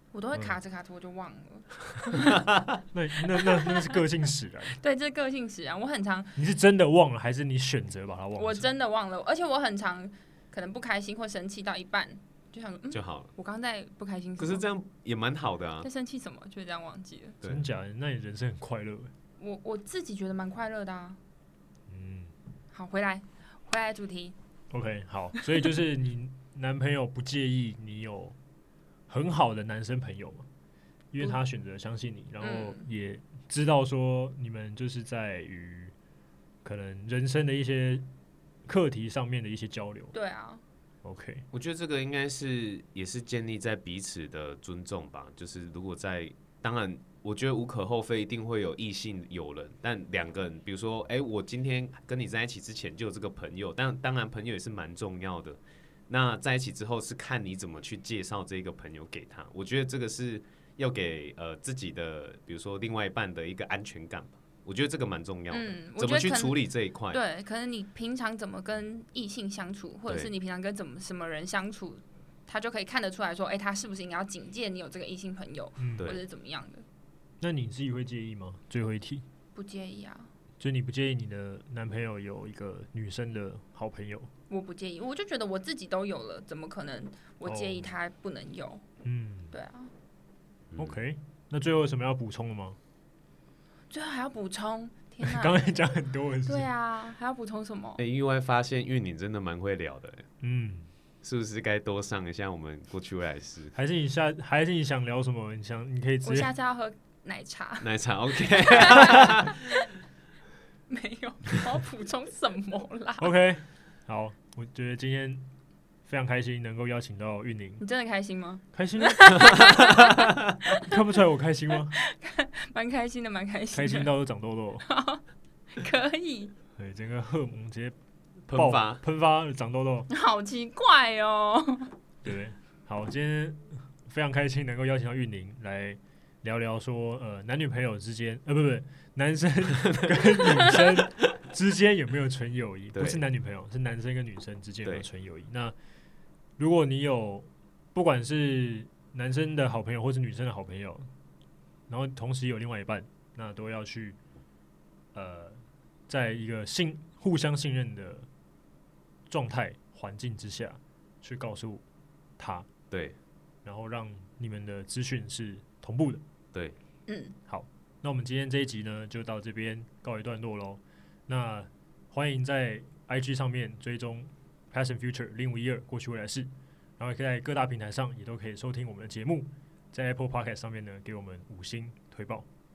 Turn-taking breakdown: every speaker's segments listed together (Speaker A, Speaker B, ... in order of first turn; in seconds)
Speaker A: 0.1-2.4, 3.4-4.0, 4.7-6.4, 8.4-14.7, 15.8-17.4, 19.4-21.2, 22.7-24.4, 32.4-32.9, 40.1-40.6, 65.5-76.8, 79.5-80.3, 84.5-88.8, 89.5-89.9, 93.9-95.7, 96.5-98.0, 106.2-107.9, 108.5-109.8, 110.9-113.3, 117.8-121.0, 121.9-124.2, 124.8-125.2, 125.8-126.5, 130.1-131.9, 167.1-167.4
Speaker B: 2.4-2.7, 12.9-13.3, 14.4-15.9, 41.5-67.2, 90.7-91.0, 98.0-100.3, 101.2-103.8, 107.8-109.7, 119.5-120.6, 128.5-129.0, 142.9-143.2, 162.9-163.2
Speaker C: 2.9-4.8, 6.4-8.7, 17.4-19.1, 21.9-22.3, 24.7-28.4, 29.1-30.5, 31.1-35.9, 36.6-38.1, 38.7-40.1, 41.0-41.5, 75.8-76.1, 77.4-79.2, 80.6-84.3, 87.5-88.0, 89.0-89.5, 90.8-92.8, 95.2-96.7, 100.4-100.9, 103.8-106.5, 113.2-115.4, 116.1-117.8, 118.7-120.2, 120.7-121.9, 123.7-124.9, 126.8-128.0, 128.5-130.1, 132.2-145.8, 146.6-151.1, 151.9-154.2, 155.1-158.3, 159.3-161.8, 162.4-162.7, 163.7-166.2, 167.5-182.5